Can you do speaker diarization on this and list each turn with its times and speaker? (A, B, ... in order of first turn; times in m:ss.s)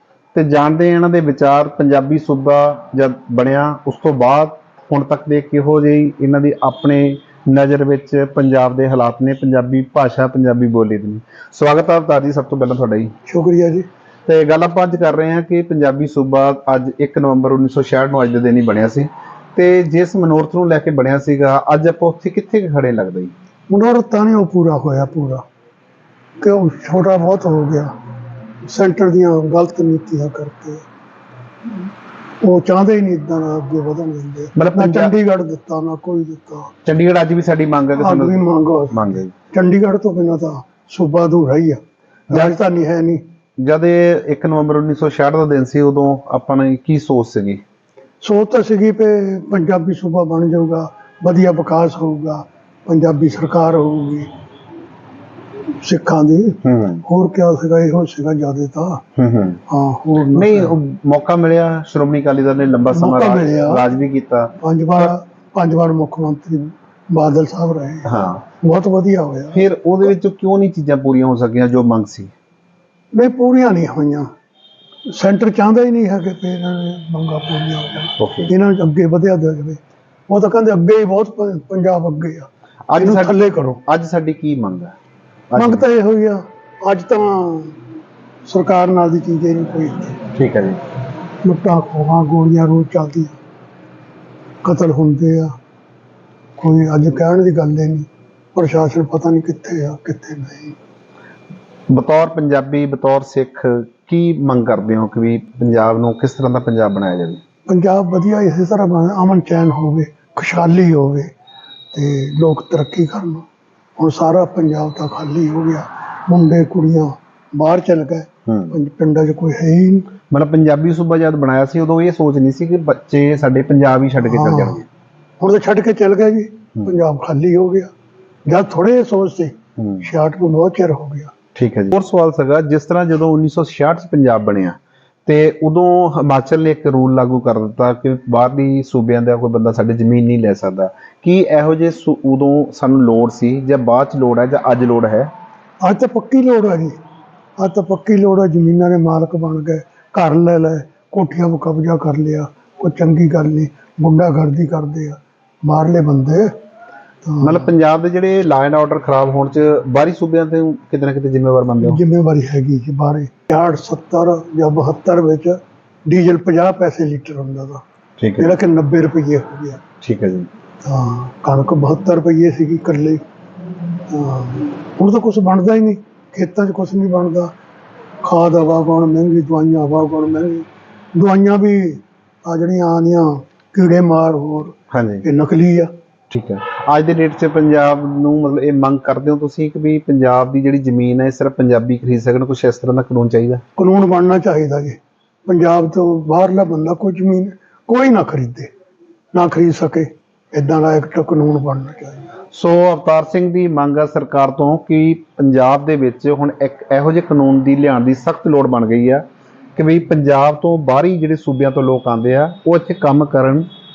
0:00.3-0:13.1 A
0:13.2-0:13.9 B
0:14.3-0:23.3 A
0:23.7-0:25.4 B
0:26.4-0:27.9 B
0:28.7-0:30.8 B
0:32.4-0:36.7 B
0:34.6-0:35.1 A
0:36.8-0:39.3 A
0:38.0-0:43.2 B
0:43.6-0:47.6 A
0:48.2-0:54.3 B
0:55.8-0:59.0 B
0:56.6-0:57.0 A
0:59.2-0:59.6 A
0:59.7-1:00.7 B
1:00.3-1:04.6 A
1:02.9-1:03.8 B
1:04.6-1:09.6 B
1:08.1-1:08.4 A
1:09.5-1:12.3 A
1:13.1-1:14.3 B
1:15.1-1:23.8 B
1:18.2-1:18.5 A
1:22.9-1:24.9 A
1:25.5-1:25.8 A
1:25.6-1:27.8 B
1:28.5-1:30.2 B
1:30.3-1:30.8 A
1:31.4-1:33.4 B
1:34.6-1:35.5 B
1:36.6-1:40.8 B
1:41.9-1:47.4 A
1:47.7-1:51.3 B
1:51.9-1:53.4 B
1:54.0-2:00.1 B
1:58.5-1:58.8 A
2:00.3-2:04.9 A
2:04.2-2:04.8 B
2:05.4-2:07.9 B
2:08.5-2:11.3 B
2:09.8-2:10.1 A
2:11.6-2:25.3 A
2:25.8-2:27.0 B
2:27.6-2:36.5 B
2:37.2-2:37.7 B
2:37.4-2:42.0 A
2:41.8-2:47.8 B
2:48.2-2:48.5 A
2:48.4-2:49.8 B
2:50.0-2:50.5 A
2:50.8-2:53.2 B
2:54.1-2:57.5 B
2:58.2-3:05.9 B
3:04.9-3:05.2 A
3:06.3-3:13.6 A
3:13.8-3:18.7 B
3:19.3-3:22.4 B
3:22.5-3:29.2 A
3:29.8-3:33.7 A